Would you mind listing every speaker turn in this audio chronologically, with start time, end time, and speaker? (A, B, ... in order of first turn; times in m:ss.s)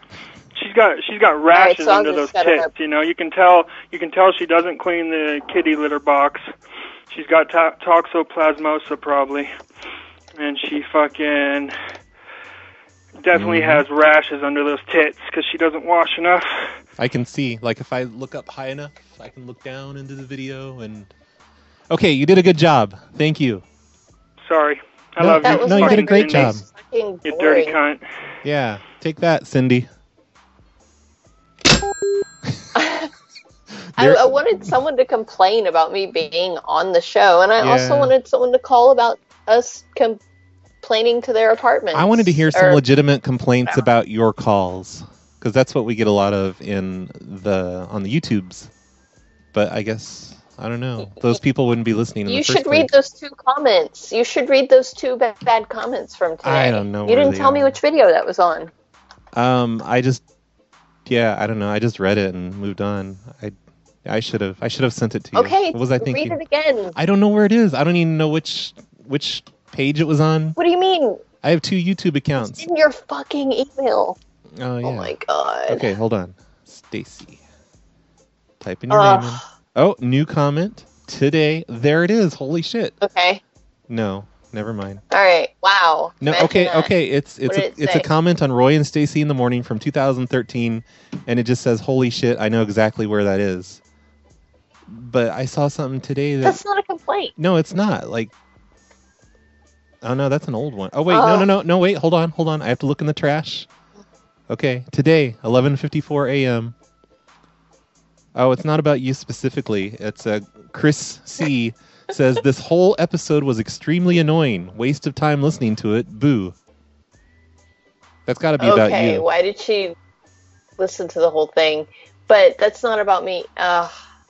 0:00.5-0:06.5 A
0:01.5-0:02.7 B
0:07.1-0:09.5 A
0:10.4-0:11.7 A
0:13.2-0:16.6 A
0:13.3-0:13.8 C
0:17.0-0:21.1 C
0:21.9-0:23.6 C
0:24.4-0:26.6 A
0:25.2-0:26.6 C
0:25.4-0:27.8 B
0:27.2-0:28.0 A
0:28.4-0:29.9 C
0:32.7-0:33.1 B
0:34.0-0:34.6 C
0:34.0-0:40.2 B
0:37.6-0:38.1 C
0:40.8-0:42.8 B
0:41.9-0:48.7 C
0:49.5-0:52.9 C
0:52.2-0:58.7 B
0:56.4-0:57.8 C
0:59.3-1:00.2 C
1:01.0-1:06.4 C
1:05.3-1:07.0 B
1:07.0-1:10.6 C
1:10.6-1:11.2 B
1:11.4-1:12.6 C
1:12.4-1:14.2 B
1:14.6-1:15.1 C
1:14.8-1:15.9 B
1:15.7-1:17.4 C
1:18.6-1:23.0 C
1:18.9-1:19.4 B
1:23.0-1:23.4 B
1:23.9-1:25.0 C
1:25.1-1:26.9 B
1:26.2-1:33.8 C
1:27.4-1:28.1 B
1:34.9-1:36.6 C
1:36.4-1:37.3 B
1:37.4-1:38.3 C
1:40.0-1:43.7 C
1:41.1-1:41.5 B
1:44.5-1:46.7 C
1:48.3-1:56.6 C
1:58.2-1:59.2 C
1:58.6-1:59.9 B
2:00.8-2:03.9 B